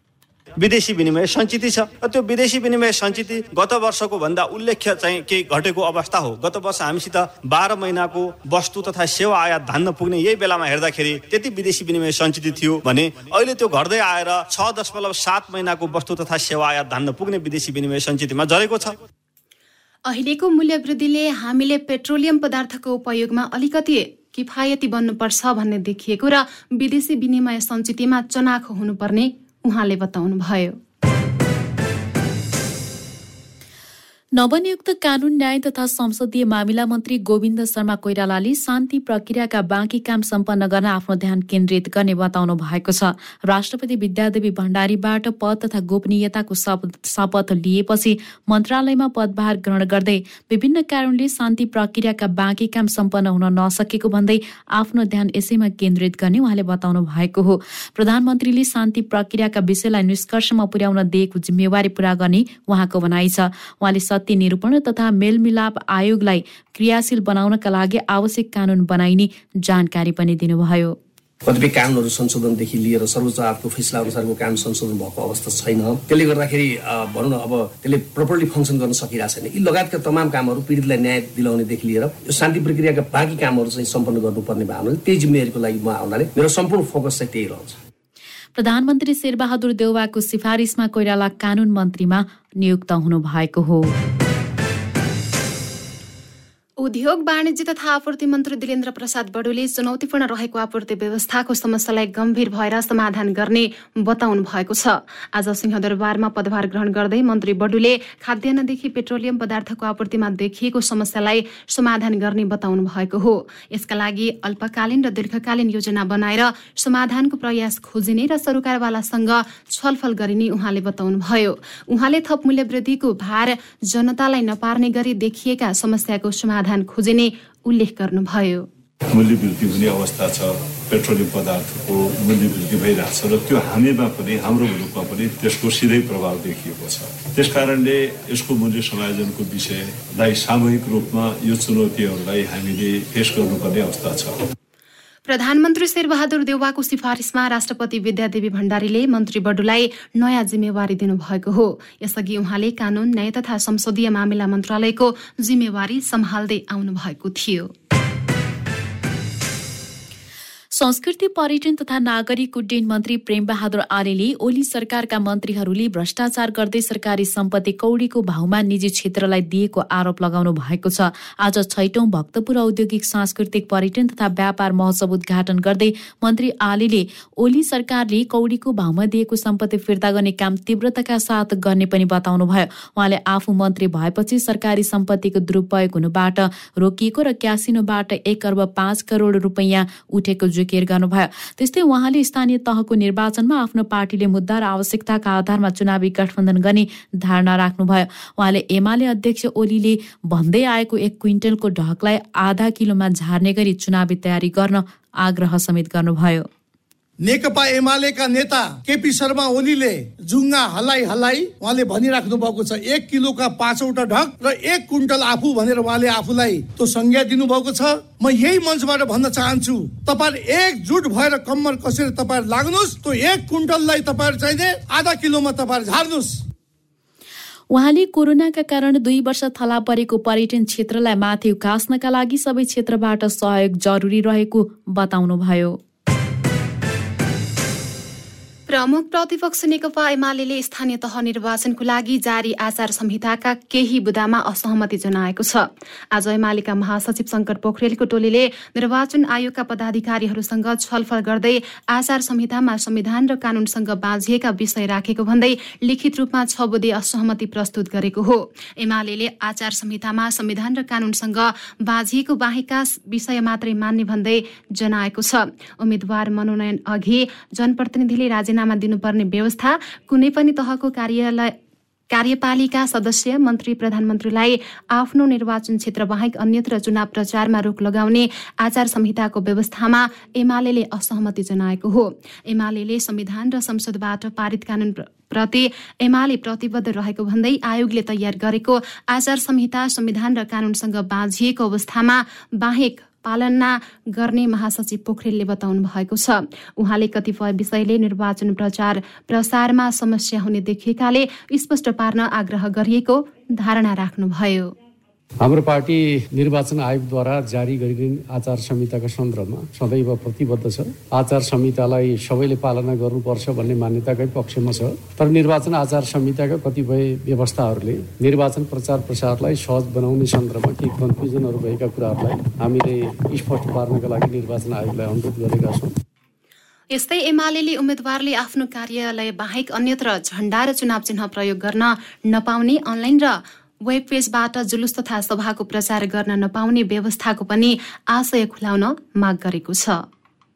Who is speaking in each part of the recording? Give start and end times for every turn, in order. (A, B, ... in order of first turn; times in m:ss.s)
0:00.6-0:18.9 A
0:20.1-0:30.8 B
0:34.4-1:10.9 C
1:11.4-1:27.8 D
1:28.6-1:33.9 C
1:36.8-2:08.7 B
2:09.1-2:24.4 E
2:25.3-2:37.7 B
2:40.7-3:26.4 C
3:27.2-3:46.4 F
3:47.7-3:55.8 C
3:58.7-4:31.5 B
4:32.1-5:04.7 B
5:05.4-5:25.9 G
5:26.9-5:40.0 B